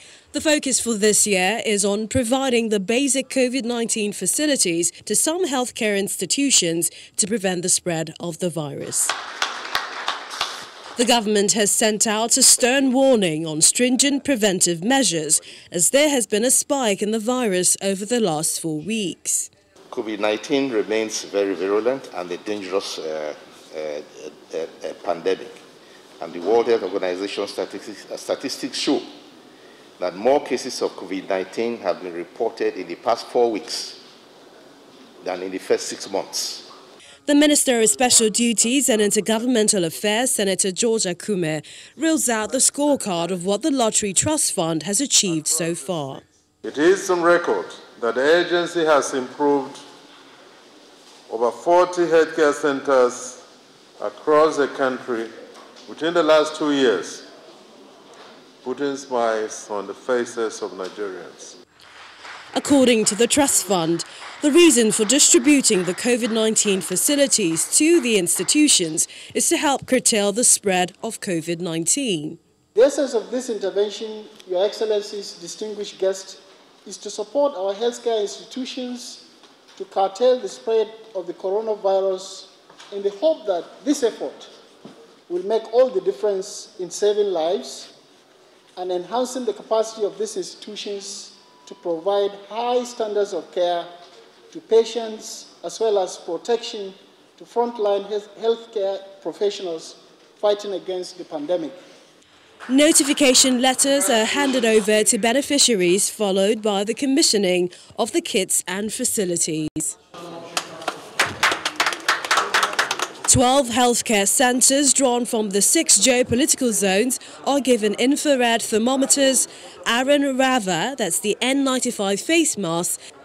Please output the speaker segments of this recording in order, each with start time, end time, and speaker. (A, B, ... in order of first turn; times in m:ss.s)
0:00.3-0:09.1 A
0:11.0-0:19.5 A
0:19.9-0:25.6 B
0:26.2-0:29.1 B
0:30.0-0:34.0 B
0:35.2-0:36.7 B
0:37.3-0:46.2 A
0:46.6-0:49.8 C
0:51.3-0:53.4 C
0:54.0-0:55.3 C
0:55.9-0:57.3 C
0:58.6-1:01.6 C
1:02.5-1:12.4 A
1:12.8-1:19.2 D
1:19.8-1:24.5 D
1:25.3-1:27.9 D
1:28.8-1:33.9 D
1:34.5-1:41.8 D
1:42.7-1:50.0 A
1:53.2-2:03.0 A